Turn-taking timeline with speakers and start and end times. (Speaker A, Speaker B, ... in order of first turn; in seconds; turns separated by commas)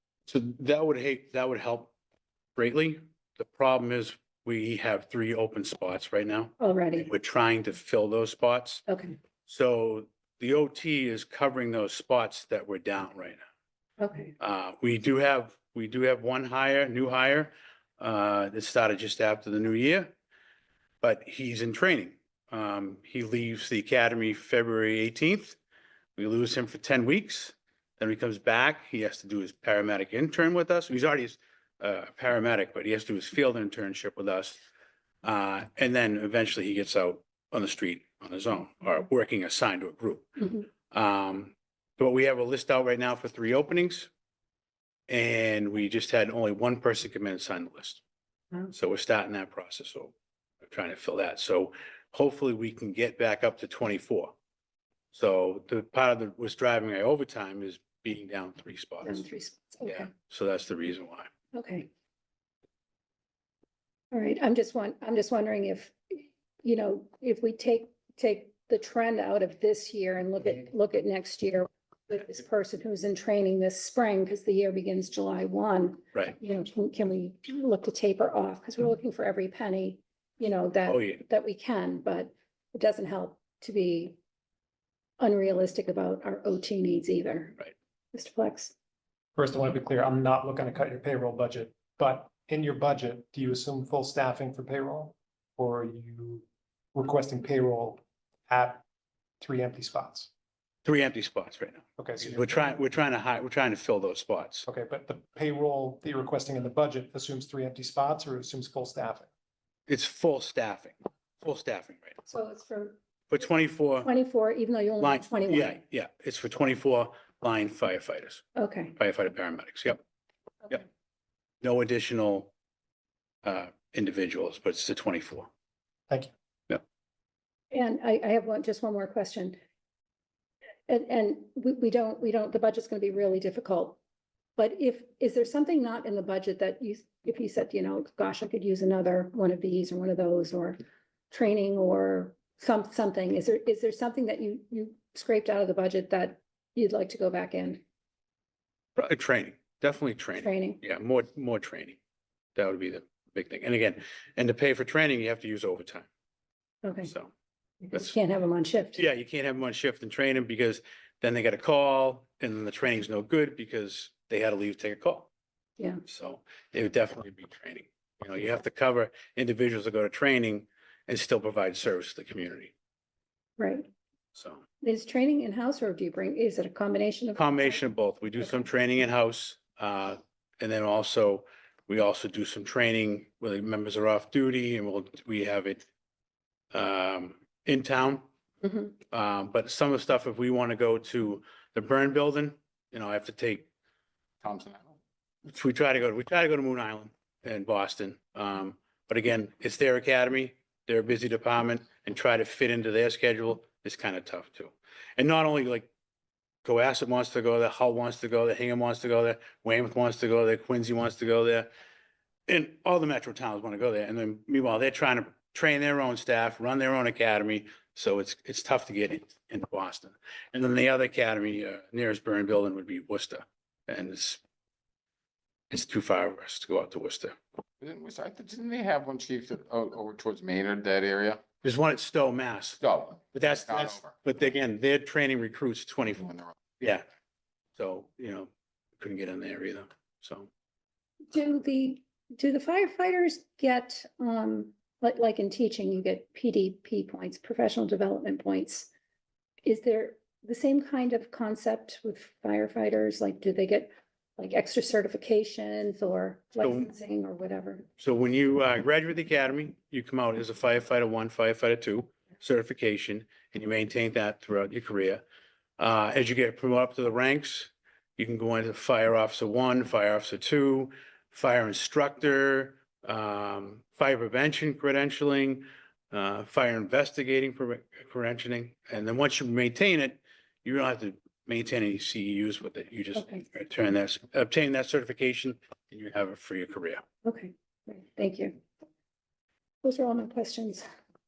Speaker A: 0.3-1.9, Speaker A: 2.6-8.8, Speaker B: 6.6-7.1, Speaker B: 8.9-9.2, Speaker A: 9.4-13.4, Speaker B: 14.0-14.3, Speaker A: 14.4-20.1, Speaker A: 21.0-25.6, Speaker A: 26.2-34.6, Speaker A: 35.2-44.1, Speaker A: 45.1-48.0, Speaker A: 48.7-50.1, Speaker A: 50.7-54.3, Speaker A: 55.1-59.2, Speaker B: 59.0-60.1, Speaker A: 59.8-61.3, Speaker B: 61.5-61.9, Speaker B: 64.1-84.2, Speaker A: 80.9-81.2, Speaker B: 85.2-88.7, Speaker C: 89.3-98.8, Speaker C: 99.4-100.3, Speaker A: 100.8-104.6, Speaker C: 102.0-102.6, Speaker C: 104.6-109.3, Speaker A: 109.9-112.1, Speaker B: 112.2-113.0, Speaker A: 113.3-114.1, Speaker B: 114.0-115.8, Speaker A: 115.0-118.4, Speaker B: 118.5-118.9, Speaker A: 119.0-120.0, Speaker A: 121.6-122.5, Speaker A: 123.4-125.5, Speaker B: 127.7-129.6, Speaker B: 130.9-134.0, Speaker B: 134.6-140.8, Speaker B: 141.3-147.8, Speaker A: 149.0-152.0, Speaker B: 150.4-150.8, Speaker A: 152.6-156.1, Speaker B: 156.8-157.1, Speaker B: 157.8-159.0, Speaker A: 158.9-165.3, Speaker B: 165.8-166.0, Speaker A: 166.1-172.7, Speaker B: 173.6-173.9, Speaker A: 174.3-174.6, Speaker B: 174.8-177.8, Speaker A: 177.4-185.8, Speaker A: 186.7-188.2, Speaker B: 188.6-188.9, Speaker A: 189.1-193.7, Speaker D: 194.4-195.0, Speaker A: 195.5-205.9, Speaker A: 206.6-211.7, Speaker A: 212.5-224.4, Speaker A: 225.7-227.3, Speaker D: 227.8-231.4, Speaker A: 231.6-232.8, Speaker D: 232.8-234.2, Speaker A: 233.3-236.3, Speaker D: 236.2-236.6, Speaker A: 236.8-237.0, Speaker A: 237.8-238.5, Speaker A: 239.0-240.5, Speaker B: 241.3-248.9, Speaker B: 249.6-257.9, Speaker A: 256.6-256.9, Speaker A: 258.0-265.2, Speaker A: 265.8-287.0, Speaker B: 283.1-283.4, Speaker B: 287.2-288.6, Speaker B: 289.8-290.9